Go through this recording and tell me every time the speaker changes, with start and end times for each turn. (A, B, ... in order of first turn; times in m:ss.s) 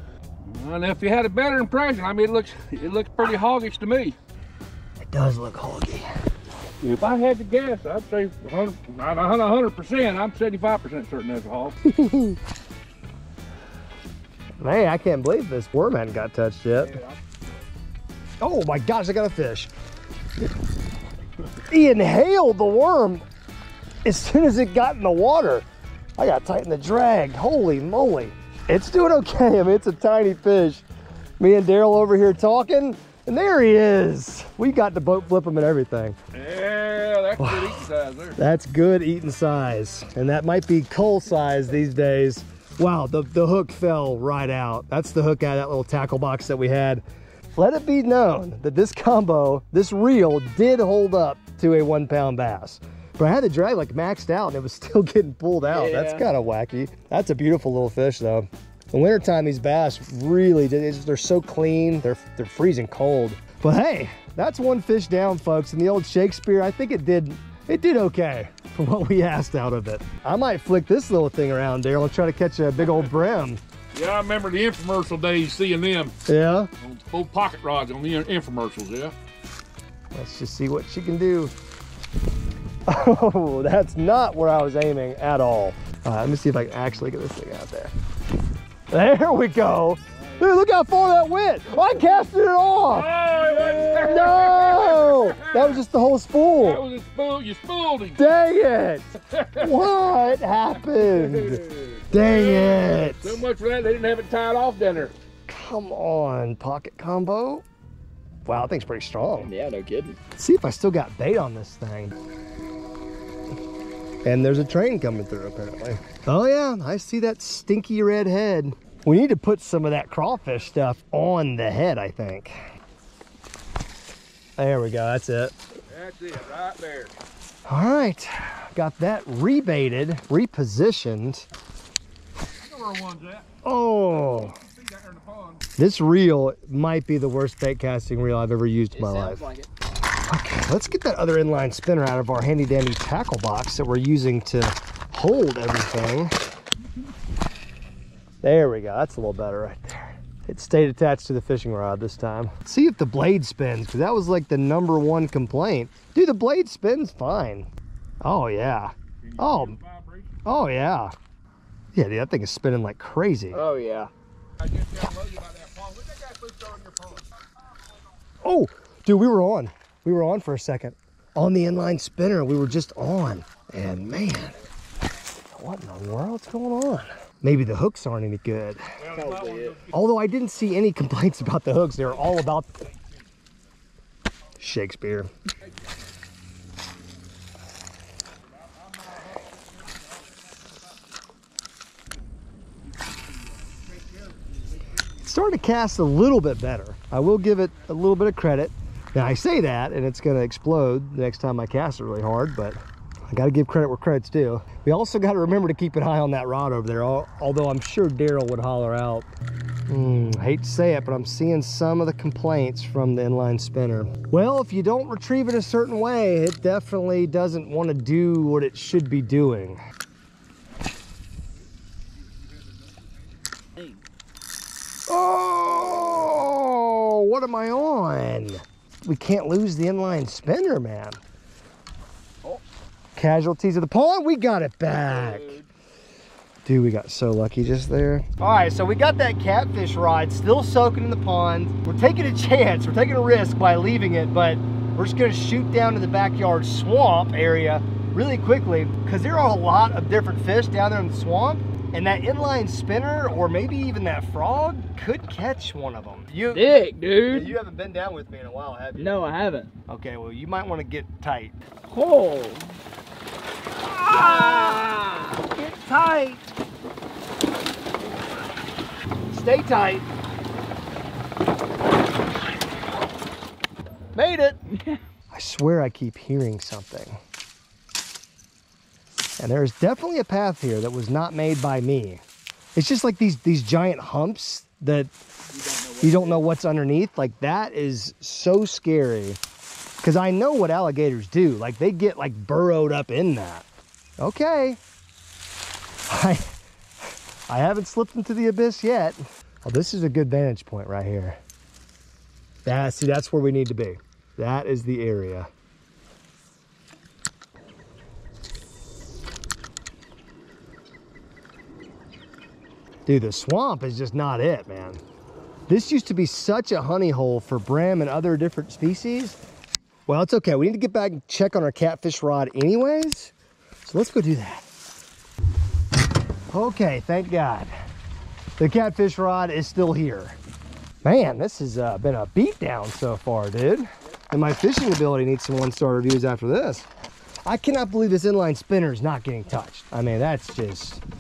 0:00.4-0:04.2 A
0:05.0-0:06.1 B
0:06.8-0:11.8 A
0:11.8-0:12.4 B
0:14.6-0:17.0 B
0:18.4-0:19.7 B
0:21.7-0:23.2 B
0:24.0-0:25.6 B
0:26.2-0:30.8 B
0:31.4-0:36.2 B
0:36.3-0:38.4 A
0:37.4-0:37.8 B
0:38.4-0:47.0 B
0:47.6-1:13.6 B
0:55.7-0:56.3 C
1:13.9-1:16.2 A
1:16.3-1:16.7 B
1:16.8-1:19.1 A
1:20.1-1:21.5 B
1:22.9-1:27.9 B
1:28.9-1:33.1 B
1:32.9-1:35.8 A
1:33.8-1:36.8 B
1:36.6-1:38.2 A
1:38.2-1:43.4 B
1:39.3-1:39.9 A
1:40.9-1:45.1 A
1:45.5-1:47.6 B
1:48.4-1:49.5 B
1:49.3-1:50.2 C
1:50.4-1:52.2 B
1:54.2-2:02.6 B
2:04.6-2:05.5 B
2:05.9-2:07.1 A
2:07.7-2:11.5 B
2:12.6-2:13.5 A
2:13.6-2:14.6 B
2:14.2-2:15.6 A
2:15.8-2:19.4 B
2:18.9-2:19.7 C
2:20.3-2:26.3 B
2:28.4-2:37.7 B
2:38.2-2:39.8 B
2:39.2-2:40.4 A
2:40.4-2:41.1 B
2:42.0-2:43.6 B
2:43.5-2:44.1 C
2:44.6-2:47.3 A
2:48.4-2:54.6 B
2:55.5-2:58.8 B
2:59.0-2:59.9 A
2:59.1-2:59.8 C
2:59.9-3:02.8 B
3:04.6-3:05.3 B
3:15.2-3:29.3 B
3:29.9-3:39.8 B
3:43.8-3:44.0 C
3:45.1-3:51.2 B
3:53.2-3:55.6 B
3:55.1-3:55.7 C
3:56.6-4:16.7 B
4:16.5-4:17.6 C
4:17.3-4:19.2 B
4:19.0-4:19.7 C
4:19.9-4:21.6 B
4:21.9-4:22.8 C
4:24.0-4:25.4 C
4:24.0-4:24.9 B
4:25.4-4:26.4 B
4:29.3-4:30.0 B
4:34.2-4:34.6 B
4:34.7-4:35.0 C
4:35.3-4:37.2 B
4:39.4-4:42.2 B
4:42.8-4:45.1 B
4:45.5-4:46.5 C
4:46.0-4:49.4 B
4:50.0-4:53.7 B
4:54.2-4:54.8 B
4:56.1-4:56.5 B
4:57.5-5:01.4 B
5:02.6-5:05.5 B
5:13.1-5:15.0 B
5:15.7-5:19.4 B
5:20.1-5:23.3 B
5:23.8-5:24.7 B
5:26.5-5:27.7 B
5:28.6-5:30.4 B
5:31.0-5:36.9 B
5:37.4-5:41.0 B